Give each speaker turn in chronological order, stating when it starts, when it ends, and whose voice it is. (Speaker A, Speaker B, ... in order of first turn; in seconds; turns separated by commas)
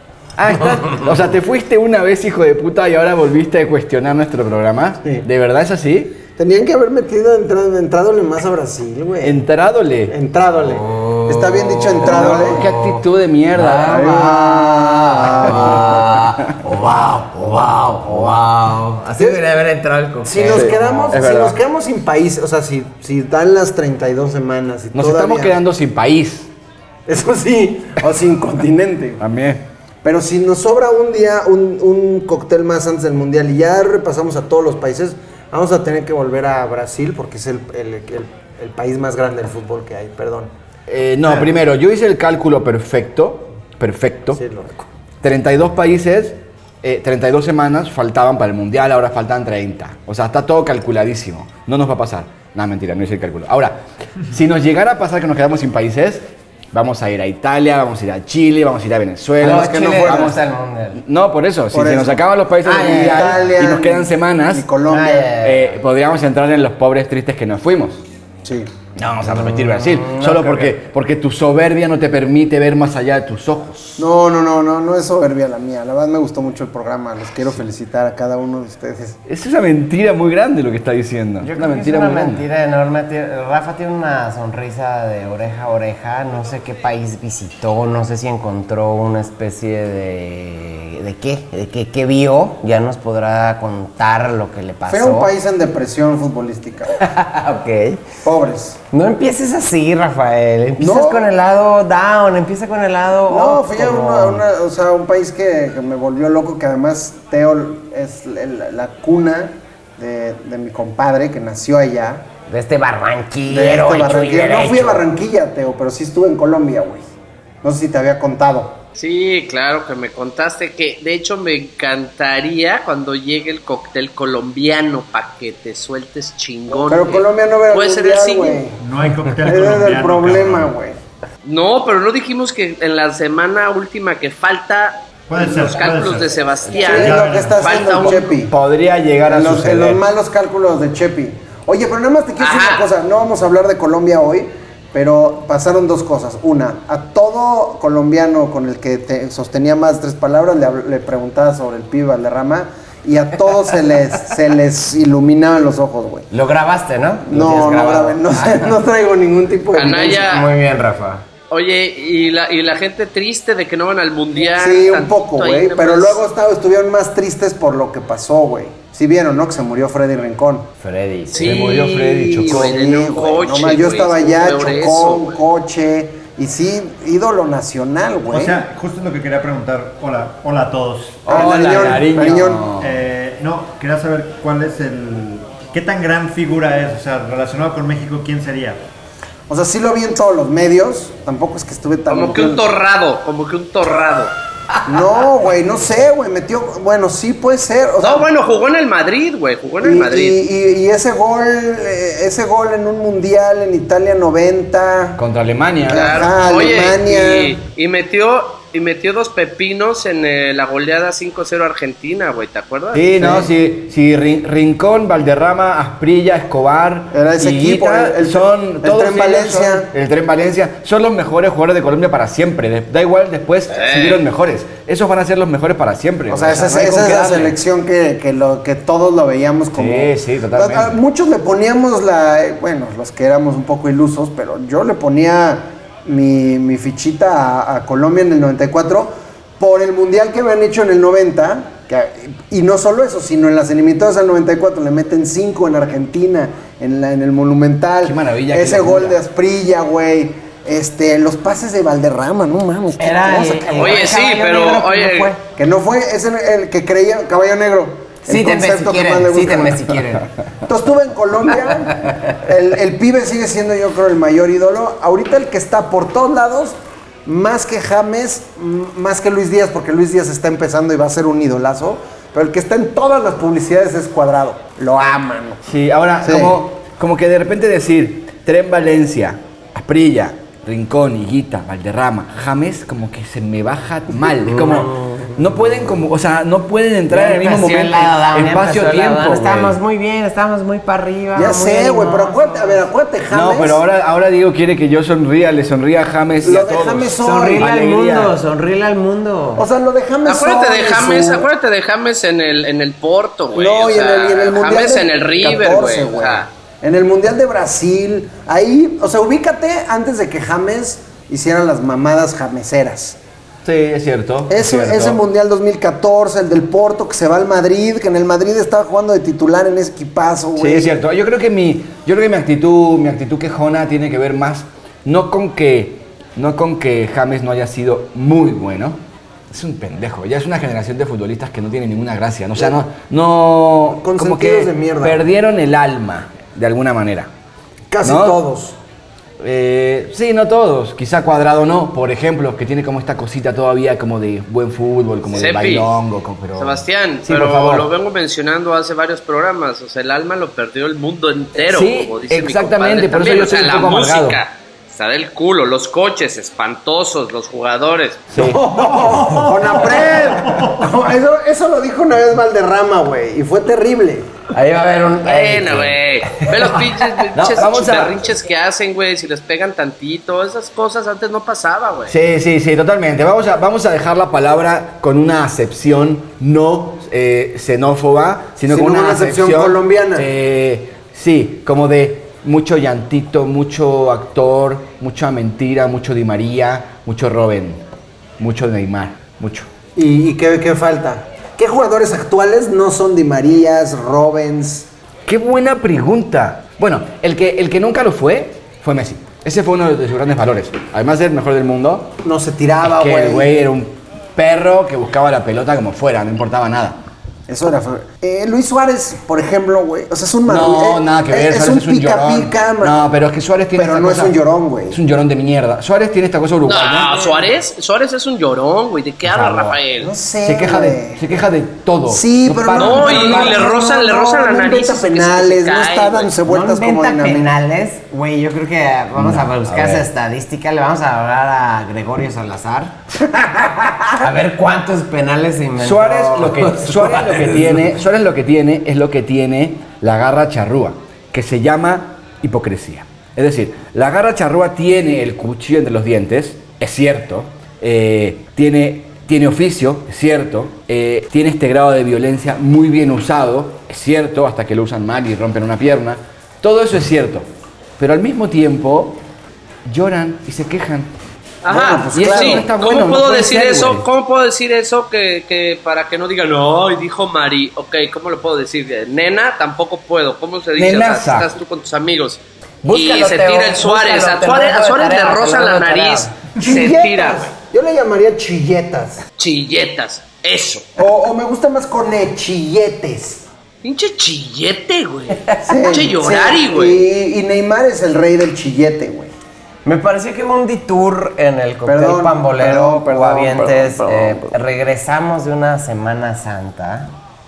Speaker A: 0.4-6.2, Speaker B: 6.3-9.4, Speaker A: 9.2-10.1, Speaker B: 10.1-12.7, Speaker C: 10.6-21.3, Speaker A: 12.0-14.2, Speaker B: 13.8-15.9, Speaker A: 15.4-16.2, Speaker B: 20.2-25.6, Speaker A: 20.5-21.6, Speaker A: 24.9-26.5, Speaker B: 27.1-29.2, Speaker A: 29.2-29.6, Speaker B: 30.0-40.5, Speaker A: 40.9-44.4, Speaker B: 44.4-44.8, Speaker A: 45.2-53.8, Speaker A: 54.3-60.4, Speaker C: 59.4-61.0, Speaker B: 59.4-60.4, Speaker A: 61.0-64.7, Speaker B: 61.7-65.4, Speaker C: 62.7-63.4, Speaker C: 64.9-65.7, Speaker A: 65.4-68.0, Speaker B: 68.5-68.7, Speaker A: 69.0-74.0, Speaker C: 69.4-70.7, Speaker B: 74.0-79.2, Speaker A: 79.3-82.4, Speaker C: 81.4-95.3, Speaker B: 94.9-97.0, Speaker C: 97.0-98.0, Speaker B: 98.2-98.8, Speaker C: 98.9-104.4, Speaker B: 100.8-101.3, Speaker B: 103.3-112.2, Speaker C: 112.5-115.0, Speaker B: 113.5-117.0, Speaker B: 117.6-118.8, Speaker D: 119.0-128.6, Speaker B: 126.7-128.8, Speaker E: 128.8-130.7, Speaker B: 129.4-131.0, Speaker D: 131.4-138.3, Speaker E: 135.3-137.9, Speaker B: 136.8-138.5, Speaker A: 137.9-140.0, Speaker B: 139.3-156.3, Speaker D: 142.4-142.9, Speaker C: 156.3-158.7, Speaker B: 157.3-160.3, Speaker D: 159.7-160.5, Speaker C: 159.9-161.2, Speaker D: 161.5-166.2, Speaker B: 164.6-170.7, Speaker C: 170.8-171.7, Speaker D: 171.3-175.4, Speaker A: 171.4-172.8, Speaker B: 172.4-178.6, Speaker E: 178.3-181.3, Speaker A: 181.3-182.9, Speaker B: 181.3-182.7, Speaker C: 181.3-182.1, Speaker E: 182.8-188.8, Speaker B: 189.5-192.7, Speaker D: 192.1-194.3, Speaker B: 194.8-198.3, Speaker D: 198.0-200.4, Speaker B: 199.8-205.2, Speaker A: 205.2-206.2, Speaker B: 205.9-207.6, Speaker D: 205.9-213.2, Speaker A: 212.9-227.6, Speaker B: 213.2-213.5, Speaker B: 217.1-219.9, Speaker D: 223.7-224.2, Speaker B: 226.3-254.0, Speaker A: 229.7-231.0, Speaker A: 248.0-249.2, Speaker C: 253.0-255.4, Speaker D: 253.8-255.3, Speaker B: 255.6-260.0, Speaker C: 258.3-260.3, Speaker B: 260.6-275.6, Speaker A: 275.6-289.8, Speaker B: 276.2-276.6, Speaker C: 284.4-285.6, Speaker C: 287.1-292.8, Speaker B: 291.4-293.8, Speaker A: 293.3-298.4, Speaker B: 296.4-297.6, Speaker C: 297.2-299.7, Speaker B: 299.6-301.5, Speaker D: 300.2-306.5, Speaker B: 303.6-313.2, Speaker A: 313.6-315.2, Speaker B: 314.5-321.0, Speaker A: 320.6-329.0, Speaker A: 329.5-337.3, Speaker B: 333.9-335.2, Speaker B: 337.9-338.8, Speaker A: 338.0-338.4, Speaker A: 339.4-347.9, Speaker D: 345.3-345.9, Speaker D: 346.6-358.2, Speaker A: 351.6-354.4, Speaker A: 358.3-358.6, Speaker B: 358.4-364.3, Speaker E: 359.0-360.9, Speaker C: 364.5-366.5, Speaker D: 365.2-372.1, Speaker A: 367.3-368.2, Speaker A: 372.1-387.8, Speaker B: 378.7-380.3, Speaker A: 388.4-389.7, Speaker B: 390.0-394.9, Speaker A: 395.3-402.1, Speaker B: 402.2-403.5, Speaker A: 402.8-407.0, Speaker B: 407.5-413.0, Speaker A: 410.5-414.4, Speaker B: 413.8-415.0, Speaker A: 414.9-417.1, Speaker D: 416.6-420.1, Speaker C: 417.2-417.4, Speaker C: 419.3-419.7, Speaker B: 420.0-421.2, Speaker A: 420.4-423.6, Speaker B: 422.1-427.5, Speaker D: 422.8-426.3, Speaker C: 426.4-433.0, Speaker A: 429.2-430.1, Speaker B: 433.4-434.1, Speaker C: 434.2-437.9, Speaker A: 435.8-457.5, Speaker A: 458.0-459.2, Speaker A: 459.9-461.1, Speaker D: 461.6-477.5, Speaker B: 461.7-462.7, Speaker A: 462.1-464.1, Speaker A: 470.8-471.5, Speaker C: 472.8-476.3, Speaker B: 476.6-479.3, Speaker D: 479.4-480.9, Speaker B: 481.0-483.4, Speaker D: 483.8-487.0, Speaker C: 485.5-485.9, Speaker B: 485.6-489.3, Speaker C: 489.9-497.1, Speaker B: 491.9-494.6